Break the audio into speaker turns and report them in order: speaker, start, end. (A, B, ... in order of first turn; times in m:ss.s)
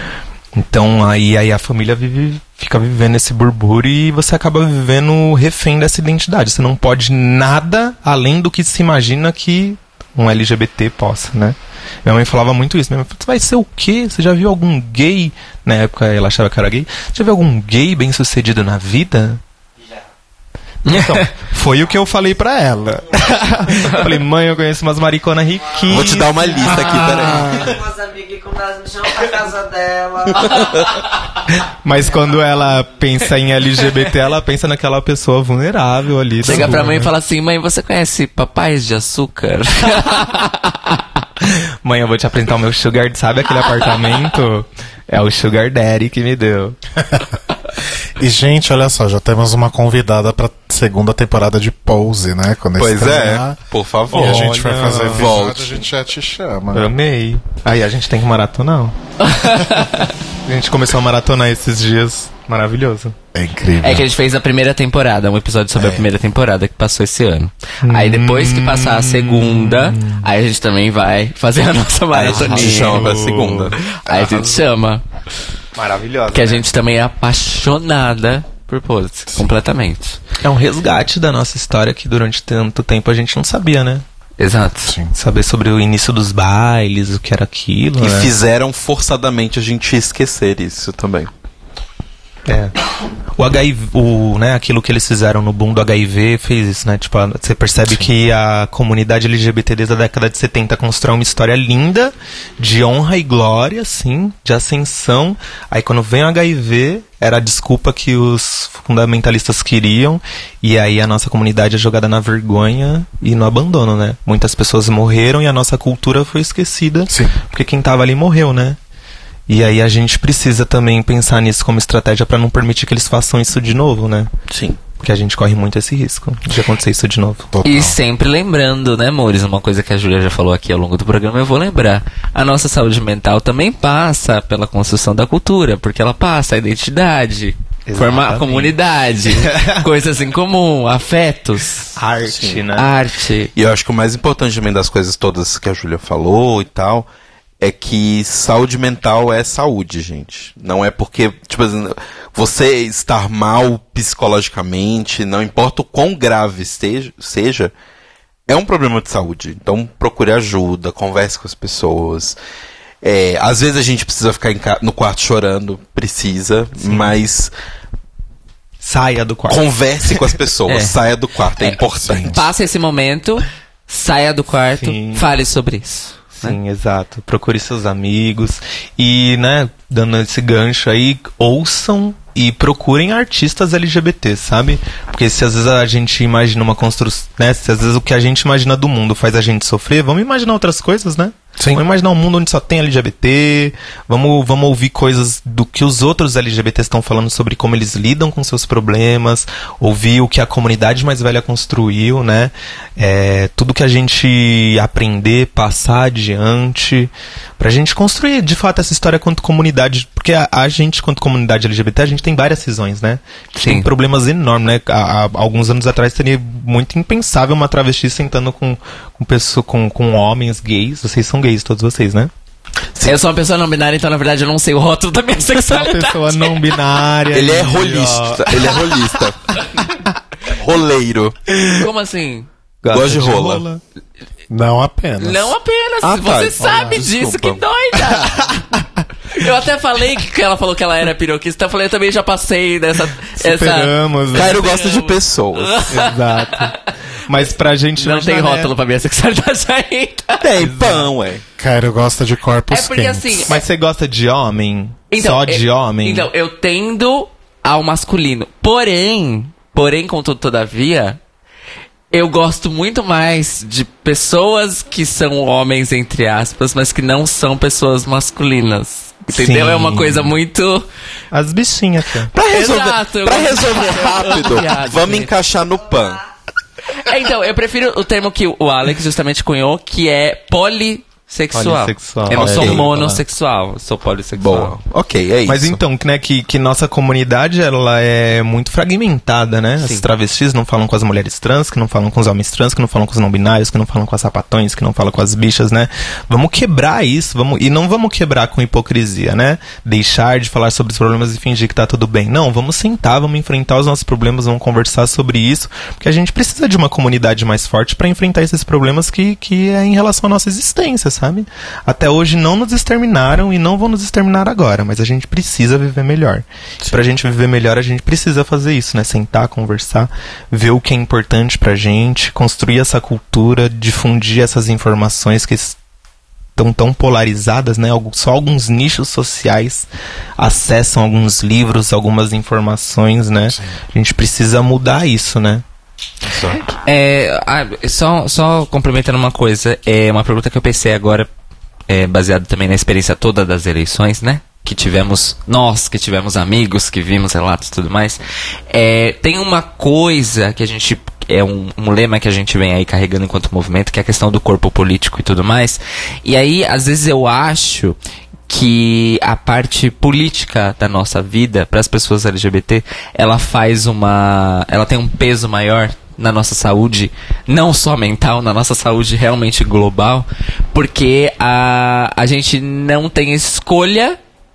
0:00.5-0:19.4 A
0:20.8-0:21.3 B
0:20.8-0:27.7 A
0:25.9-0:27.7 C
0:27.3-0:31.0 D
0:31.5-0:37.1 A
0:36.4-0:40.8 B
0:41.4-0:46.8 A
0:48.2-0:53.6 E
0:52.8-0:55.8 C
0:54.1-0:55.3 A
0:54.1-0:56.9 E
0:56.7-0:58.9 A
0:59.2-1:00.1 B
0:59.6-0:59.8 A
1:00.4-1:03.1 A
1:03.3-1:04.0 E
1:03.8-1:13.1 B
1:07.8-1:10.2 A
1:12.2-1:14.6 A
1:12.2-1:13.8 C
1:13.8-1:15.0 B
1:15.8-1:16.6 A
1:16.3-1:20.2 B
1:20.4-1:24.0 A
1:24.4-1:24.9 B
1:24.9-1:25.1 E
1:25.1-1:28.3 A
1:28.0-1:31.3 C
1:32.5-1:32.7 A
1:33.4-1:58.8 A
1:59.5-2:04.3 A
2:04.5-2:04.8 C
2:05.0-2:07.5 A
2:07.5-2:08.0 E
2:07.6-2:22.0 B
2:17.8-2:19.9 A
2:21.9-2:22.9 A
2:22.2-2:22.6 C
2:22.7-2:23.5 B
2:23.5-2:27.1 C
2:27.6-2:37.7 C
2:38.5-2:42.4 C
2:43.0-2:47.5 C
2:46.8-2:47.1 A
2:48.8-2:50.3 A
2:49.5-2:52.4 C
2:50.7-2:51.0 B
2:51.6-2:56.6 B
2:54.8-2:55.2 A
2:56.4-3:42.3 A
3:33.6-3:33.9 B
3:43.0-3:46.7 B
3:45.5-3:48.8 A
3:47.3-3:49.6 C
3:50.4-3:51.5 C
3:51.7-3:52.5 B
3:52.8-3:53.8 A
3:52.9-3:53.6 C
3:54.5-3:55.5 E
3:55.2-3:58.6 B
3:56.0-3:57.6 C
3:59.3-4:06.9 B
4:03.4-4:04.6 A
4:04.3-4:06.0 C
4:05.9-4:08.7 A
4:08.0-4:10.4 B
4:10.4-4:11.4 C
4:10.6-4:11.1 A
4:11.6-4:13.5 E
4:12.7-4:13.6 B
4:13.5-4:16.3 A
4:15.1-4:21.2 B
4:22.1-4:30.8 B
4:29.3-4:30.3 A
4:31.3-4:32.3 A
4:32.3-4:36.2 C
4:32.5-4:35.3 B
4:37.0-4:44.8 B
4:41.5-4:43.2 A
4:42.3-4:42.9 C
4:44.4-4:45.8 C
4:45.4-5:25.8 A
4:49.8-4:50.0 B
5:26.6-5:29.9 A
5:30.4-5:35.6 A
5:36.2-5:36.6 C
5:36.7-5:41.3 B
5:41.9-5:58.0 B
5:58.5-6:14.2 B